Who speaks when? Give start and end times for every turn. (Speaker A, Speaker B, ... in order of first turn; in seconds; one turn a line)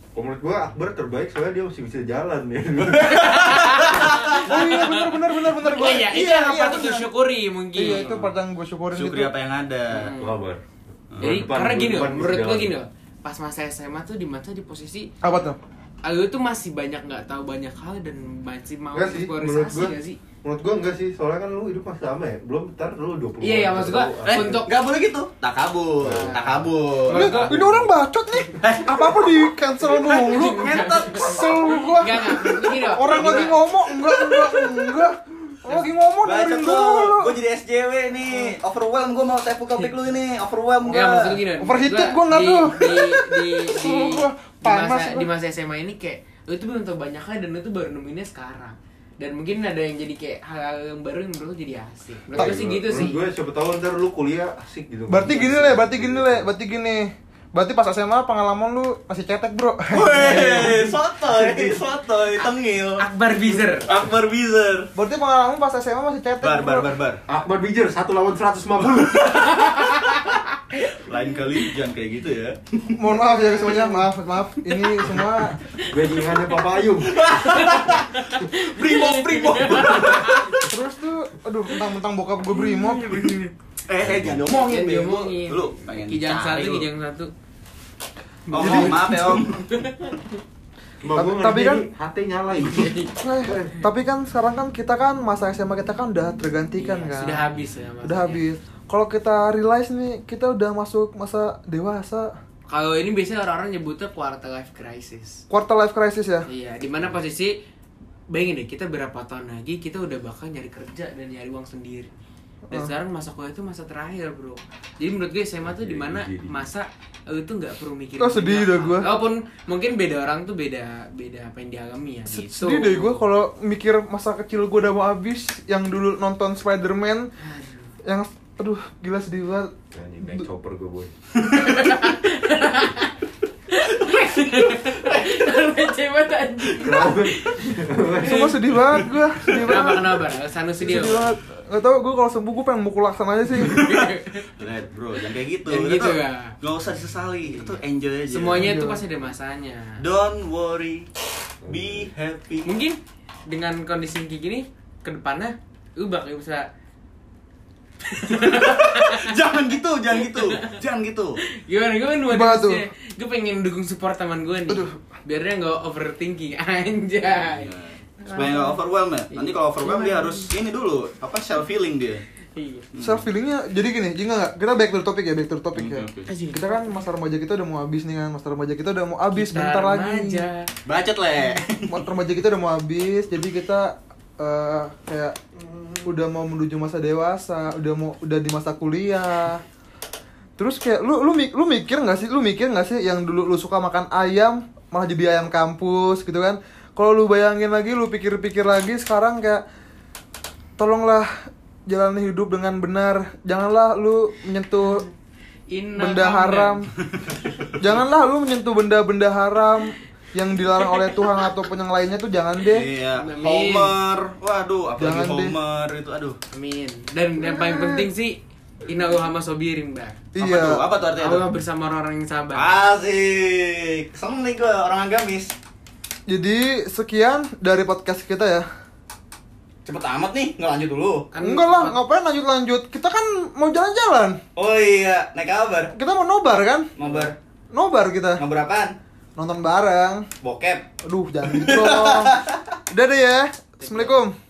Speaker A: 0.1-3.3
Speaker B: 3.1-8.2
Speaker C: 3.2-4.1
Speaker D: 4.4-7.1
Speaker D: 7.7-9.3
Speaker C: 7.8-8.3
Speaker C: 8.9-10.1
Speaker B: 9.9-10.4
Speaker A: 10.1-10.6
Speaker C: 11.1-11.4
Speaker A: 11.1-12.7
Speaker B: 11.2-15.1
Speaker D: 15.2-15.6
Speaker B: 16.0-20.2
Speaker A: 18.9-24.6
Speaker B: 23.4-24.7
Speaker C: 24.2-27.6
Speaker A: 26.0-26.5
Speaker B: 26.0-27.5
Speaker D: 27.1-37.3
Speaker C: 28.6-31.6
Speaker B: 30.2-33.6
Speaker C: 36.2-41.4
Speaker B: 40.8-53.2
Speaker D: 41.6-45.3
Speaker A: 52.3-56.5
Speaker D: 55.1-60.8
Speaker C: 59.9-63.0
Speaker A: 60.5-61.7
Speaker B: 63.0-63.9
Speaker C: 63.8-64.9
Speaker D: 65.0-66.9
Speaker C: 66.4-67.2
Speaker A: 67.3-69.3
Speaker B: 69.2-70.8
Speaker C: 70.8-73.0
Speaker D: 73.0-75.6
Speaker B: 73.3-74.1
Speaker B: 74.6-80.6
Speaker A: 75.8-77.2
Speaker C: 77.1-80.6
Speaker D: 80.7-83.4
Speaker B: 82.5-83.5
Speaker C: 83.9-86.8
Speaker B: 84.5-87.3
Speaker B: 88.5-90.2
Speaker C: 88.5-89.7
Speaker D: 88.5-89.2
Speaker A: 91.0-93.8
Speaker D: 91.1-91.8
Speaker B: 92.6-93.1
Speaker D: 93.2-97.4
Speaker B: 96.8-98.4
Speaker D: 98.0-102.3
Speaker B: 102.7-105.4
Speaker D: 105.5-106.5
Speaker B: 106.5-107.6
Speaker B: 108.3-112.1
Speaker B: 112.7-123.2
Speaker A: 115.6-116.7
Speaker D: 118.2-119.1
Speaker D: 122.2-127.3
Speaker B: 127.4-128.0
Speaker D: 128.0-130.4
Speaker A: 129.9-131.1
Speaker B: 131.5-133.1
Speaker B: 133.7-138.6
Speaker A: 136.8-138.8
Speaker D: 138.2-140.2
Speaker C: 139.0-139.7
Speaker B: 139.5-141.3
Speaker D: 140.8-143.8
Speaker B: 143.6-144.5
Speaker C: 143.7-144.0
Speaker C: 144.6-148.7
Speaker B: 145.7-146.5
Speaker B: 148.3-150.0
Speaker D: 148.5-149.0
Speaker C: 150.0-151.1
Speaker A: 151.6-152.1
Speaker C: 151.7-152.7
Speaker B: 152.6-156.7
Speaker B: 158.1-159.3
Speaker C: 158.3-161.4
Speaker B: 160.1-160.8
Speaker B: 161.4-168.8
Speaker D: 162.3-162.9
Speaker D: 164.7-165.0
Speaker C: 167.3-172.2
Speaker B: 169.3-170.5
Speaker B: 172.5-172.9
Speaker C: 172.9-173.2
Speaker D: 173.0-180.4
Speaker C: 175.7-176.3
Speaker B: 176.3-177.0
Speaker B: 179.3-180.7
Speaker C: 180.8-182.1
Speaker D: 181.9-185.3
Speaker D: 186.0-189.6
Speaker D: 190.6-199.6
Speaker D: 200.8-201.3
Speaker D: 201.9-205.1
Speaker B: 205.7-206.9
Speaker D: 206.0-206.9
Speaker D: 207.8-212.9
Speaker C: 212.6-216.4
Speaker B: 213.2-213.9
Speaker D: 215.0-215.6
Speaker B: 216.5-220.2
Speaker D: 217.4-218.1
Speaker D: 220.3-220.8
Speaker C: 220.4-221.4
Speaker B: 221.2-222.7
Speaker C: 222.5-225.5
Speaker D: 226.3-228.7
Speaker C: 229.8-231.3
Speaker B: 231.3-232.0
Speaker D: 231.4-234.4
Speaker C: 234.6-235.9
Speaker D: 235.9-236.9
Speaker C: 237.0-237.3
Speaker D: 237.7-238.4
Speaker C: 238.4-238.9
Speaker D: 239.3-240.2
Speaker C: 240.4-240.8
Speaker D: 241.0-242.3
Speaker C: 241.4-242.6
Speaker D: 242.9-244.3
Speaker B: 243.8-244.2